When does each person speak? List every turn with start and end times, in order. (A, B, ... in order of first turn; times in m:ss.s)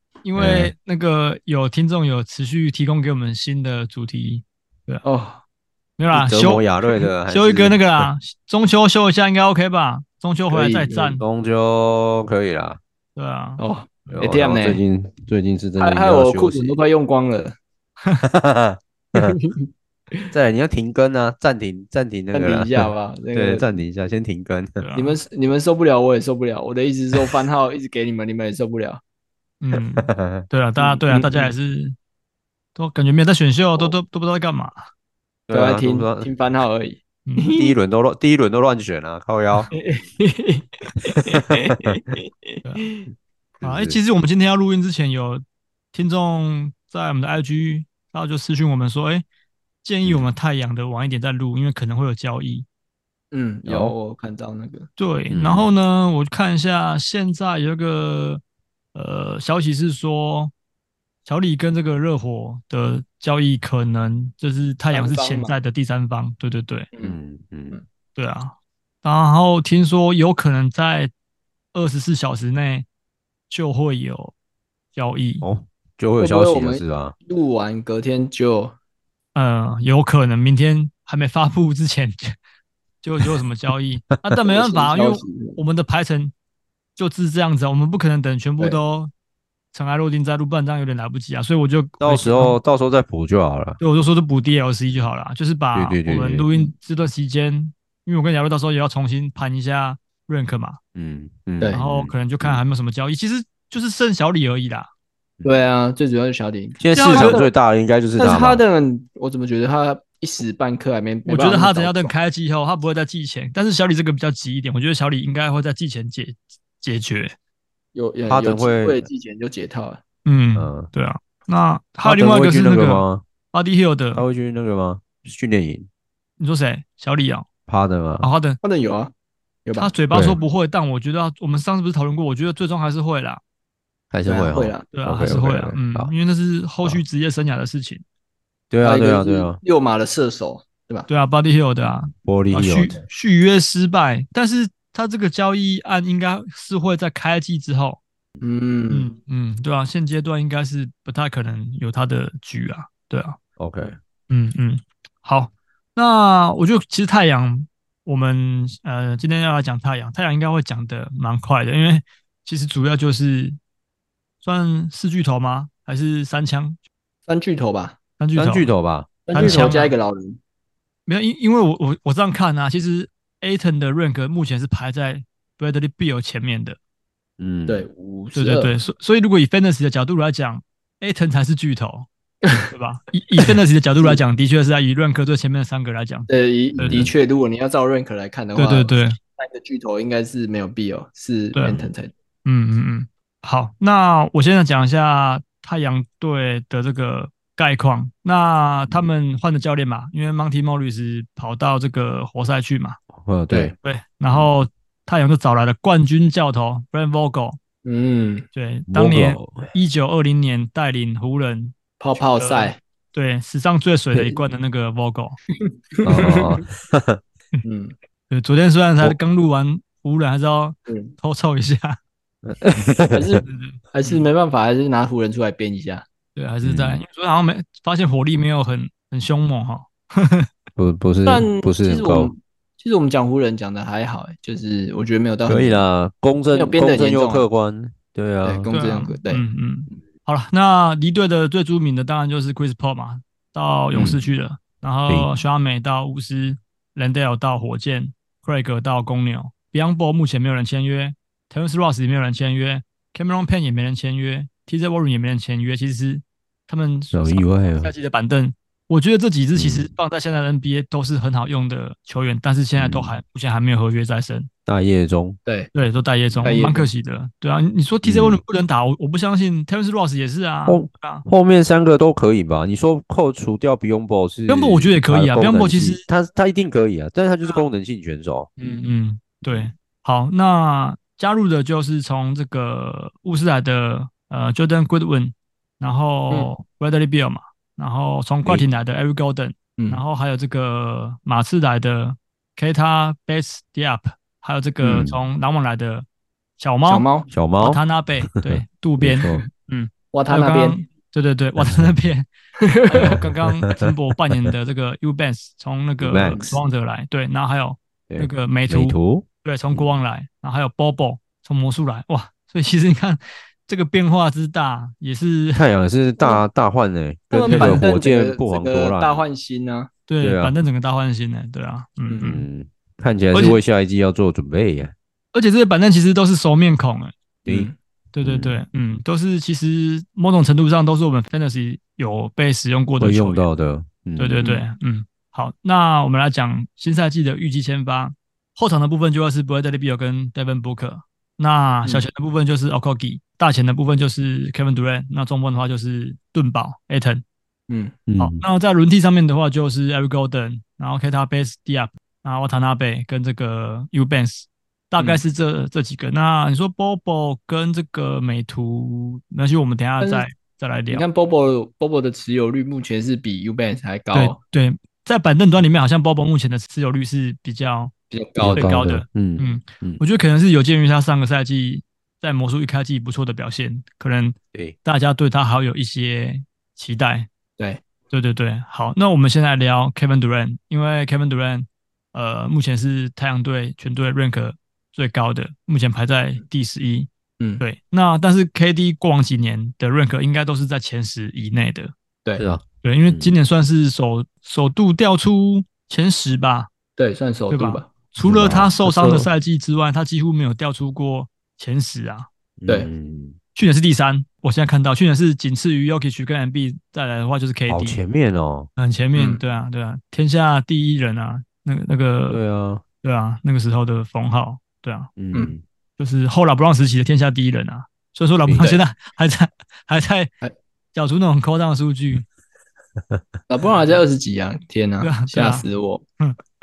0:00.2-0:05.0 A
0:00.4-0:00.7 B
0:05.0-0:05.4 C
0:06.0-0:11.2 A
0:06.1-0:08.1 B
0:10.5-0:11.1 C
0:11.2-0:12.8 B
0:13.2-0:13.6 A
0:13.6-0:14.8 C
0:14.1-0:16.8 B
0:15.8-0:17.6 C
0:18.2-0:19.3 B
0:19.1-0:20.3 C
0:20.3-0:24.8 B
0:22.3-0:23.7 C
0:24.8-0:25.2 A
0:24.9-0:29.0 C
0:29.6-0:31.9 A
0:29.9-0:30.4 B
0:30.8-0:31.5 C
0:32.7-0:34.8 A
0:35.5-0:36.3 B
0:35.5-0:37.7 C
0:37.2-0:37.5 A
0:37.5-0:39.7 B
0:39.7-0:43.0 C
0:41.3-0:41.9 B
0:43.6-0:44.0 B
0:43.6-0:49.2 A
0:49.8-0:52.6 A
0:53.3-0:54.9 C
0:53.6-0:53.9 B
0:55.0-0:58.4 A
0:55.3-0:55.7 B
0:58.9-1:00.5 A
1:01.2-1:06.9 A
1:04.9-1:05.6 C
1:07.0-1:07.8 B
1:08.2-1:11.1 A
1:11.7-1:12.9 A
1:13.5-1:14.3 A
1:14.9-1:15.5 A
1:15.4-1:17.1 B
1:16.2-1:18.7 C
1:19.3-1:22.3 A
1:23.0-1:26.3 A
1:24.4-1:25.6 C
1:27.0-1:29.1 A
1:29.7-1:32.6 A
1:32.0-1:33.8 B
1:33.8-1:40.8 A
1:35.7-1:36.5 B
1:40.9-1:42.6 B
1:41.7-1:44.9 A
1:45.4-1:47.5 C
1:46.8-1:48.6 B
1:47.1-1:47.4 A
1:48.2-1:52.1 C
1:51.2-1:57.3 A
1:57.9-2:00.0 C
1:58.3-1:59.0 B
2:00.2-2:04.2 A
2:00.6-2:00.9 B
2:02.0-2:03.2 B
2:04.1-2:05.9 B
2:06.4-2:07.5 A
2:07.7-2:08.3 B
2:08.2-2:08.6 A
2:08.6-2:09.1 C
2:09.6-2:10.4 C
2:09.8-2:13.4 A
2:14.1-2:16.1 B
2:14.2-2:14.9 C
2:14.9-2:18.0 A
2:18.7-2:19.6 B
2:18.8-2:21.1 C
2:21.1-2:28.0 A
2:22.2-2:23.0 B
2:28.4-2:29.1 C
2:28.9-2:33.4 A
2:33.6-2:34.0 B
2:34.3-2:43.6 A
2:44.4-2:46.8 A
2:47.3-2:48.0 C
2:48.2-2:48.7 A
2:48.4-2:49.7 B
2:49.3-2:50.4 C
2:49.3-2:49.9 A
2:51.1-2:56.8 A
2:57.4-2:57.8 B
2:57.7-2:58.7 C
2:58.3-3:02.1 A
3:02.4-3:02.7 C
3:02.7-3:06.3 A
3:06.3-3:12.1 C
3:06.8-3:07.1 B
3:08.5-3:09.2 A
3:11.5-3:11.8 A
3:12.4-3:23.0 A
3:23.1-3:23.7 B
3:23.8-3:27.6 A
3:27.8-3:28.4 C
3:28.5-3:35.4 A
3:28.9-3:29.7 B
3:32.0-3:32.8 C
3:35.6-3:36.6 C
3:36.0-3:37.2 B
3:37.6-3:37.9 C
3:38.3-3:42.0 A
3:40.9-3:41.1 C
3:42.4-3:43.4 B
3:43.1-3:46.0 C
3:43.4-3:44.2 A
3:46.3-3:50.5 A
3:46.6-3:47.0 B
3:50.8-3:52.3 B
3:51.2-3:55.8 C
3:55.5-3:58.6 B
3:56.5-3:57.4 C
3:58.4-3:59.4 C
3:58.7-4:24.5 A
4:03.9-4:04.2 B
4:17.1-4:17.9 B
4:19.5-4:19.9 B
4:22.8-4:23.2 B
4:24.6-4:25.4 B
4:25.7-4:31.2 A
4:26.4-4:26.9 C
4:28.0-4:28.4 B
4:30.7-4:38.5 B
4:34.5-4:36.1 A
4:38.6-4:56.0 A
4:54.8-4:55.2 B
4:56.6-4:57.1 A
4:56.8-4:57.3 C
4:57.3-4:57.8 B
4:57.6-5:02.3 A
4:58.3-4:59.4 B
5:00.1-5:00.8 C
5:01.6-5:02.0 B
5:02.6-5:03.2 C
5:02.9-5:15.6 A
5:02.9-5:03.9 B
5:06.0-5:06.5 B
5:06.3-5:06.6 C
5:08.1-5:09.9 B
5:15.5-5:19.2 B
5:17.3-5:19.9 C
5:17.4-5:17.9 A
5:20.1-5:22.4 A
5:20.2-5:20.5 B
5:22.2-5:24.9 B
5:23.3-5:23.6 A
5:25.3-5:27.1 A
5:27.4-5:27.7 B
5:27.4-5:27.7 C
5:28.1-5:33.4 A
5:28.2-5:28.6 B
5:33.0-5:34.4 B
5:34.2-5:47.2 A
5:47.7-5:48.0 C
5:48.1-5:48.4 B
5:48.2-6:01.0 A
6:00.0-6:00.2 C
6:00.9-6:04.4 C
6:04.1-6:07.9 A
6:08.1-6:08.7 C
6:08.4-6:10.0 B
6:08.5-6:17.3 A
6:18.1-6:27.1 A
6:27.6-6:31.9 A
6:32.4-6:33.4 B
6:32.8-6:36.7 A
6:37.0-6:37.9 C
6:37.5-6:42.3 A
6:38.2-6:39.3 B
6:42.6-6:43.4 B
6:43.5-6:48.0 A
6:47.7-6:48.7 B
6:48.8-6:52.4 A
6:52.3-6:52.8 B
6:53.0-6:55.1 A
6:55.2-6:55.6 B
6:56.0-7:00.3 A
7:00.9-7:02.2 A
7:03.5-7:06.0 C
7:05.0-7:05.6 A